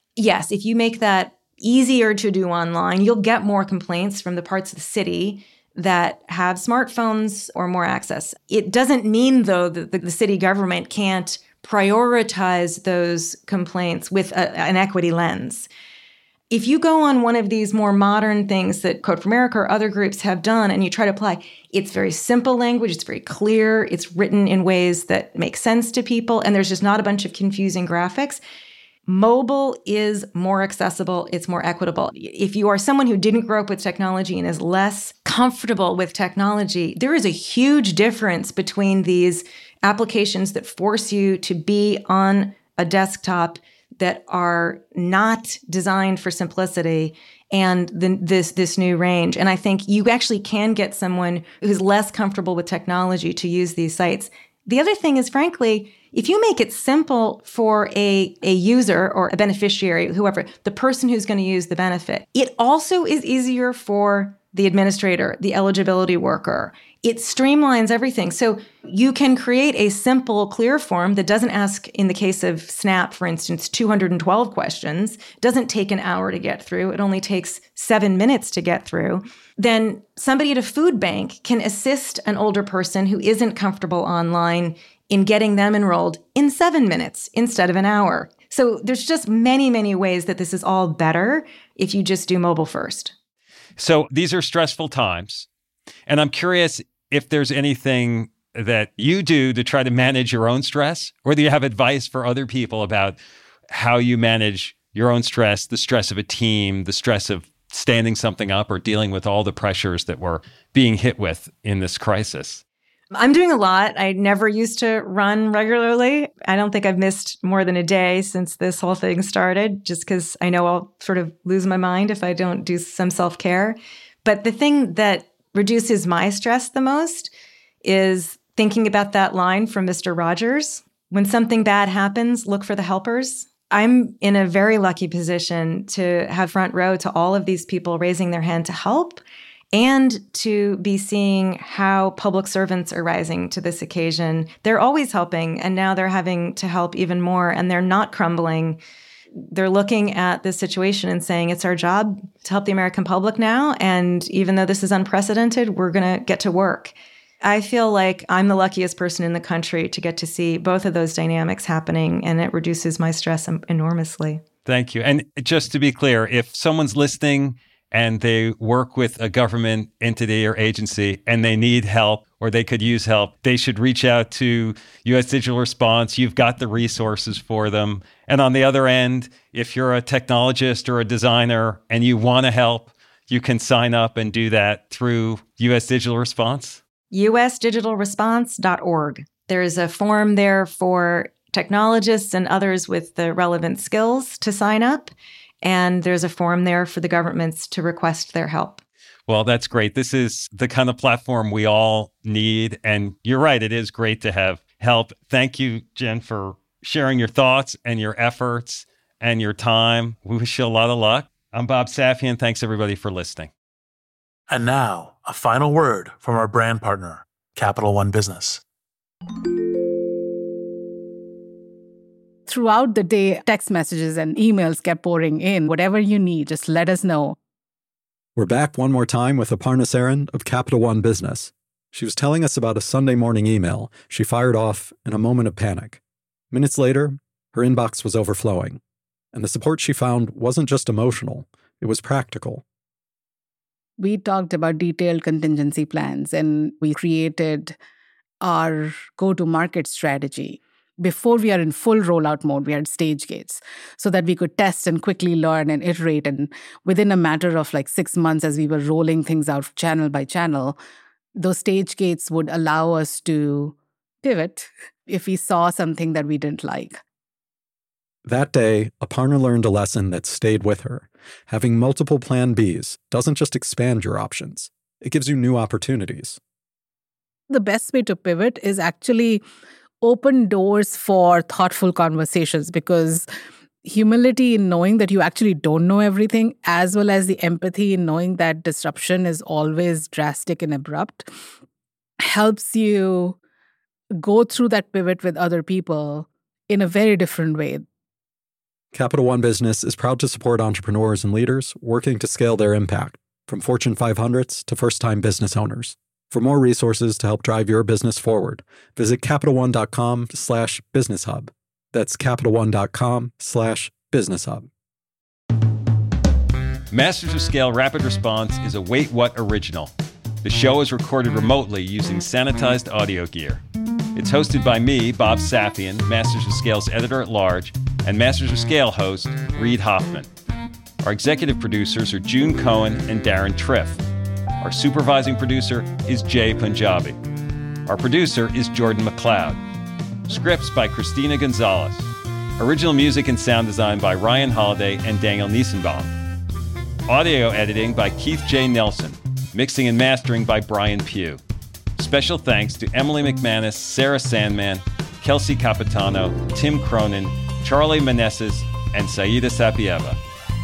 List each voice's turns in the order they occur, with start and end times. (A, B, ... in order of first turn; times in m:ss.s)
0:00.2-0:15.7 A
0:16.5-0:28.4 A
0:29.1-1:33.1 A
1:33.8-1:35.5 B
1:36.1-1:43.2 B
1:43.7-1:52.6 B
1:53.2-2:07.3 A
2:07.8-2:19.2 A
2:19.7-2:28.8 A
2:29.5-2:44.4 A
2:44.6-3:06.8 B
3:07.1-3:18.8 A
3:19.3-3:33.5 B
3:34.5-3:38.6 C
3:42.5-3:47.4 D
3:48.4-3:56.0 E
3:56.5-3:58.8 E
3:59.3-4:02.6 E
4:04.0-4:07.8 D
4:08.4-4:20.8 D
4:21.4-4:27.0 D
4:28.2-4:36.4 E
4:37.5-4:39.4 D
4:40.0-4:43.3 D
4:43.8-4:51.3 D
4:52.2-4:53.4 D
4:54.2-4:57.8 D
4:58.9-5:14.7 E
5:16.9-5:19.9 B
5:20.4-5:23.6 B
5:24.2-5:30.3 B
5:31.0-5:34.0 B
5:34.6-5:37.2 B
5:37.9-5:39.6 B
5:40.3-5:46.1 B
5:47.1-5:51.4 B
5:52.0-6:00.2 B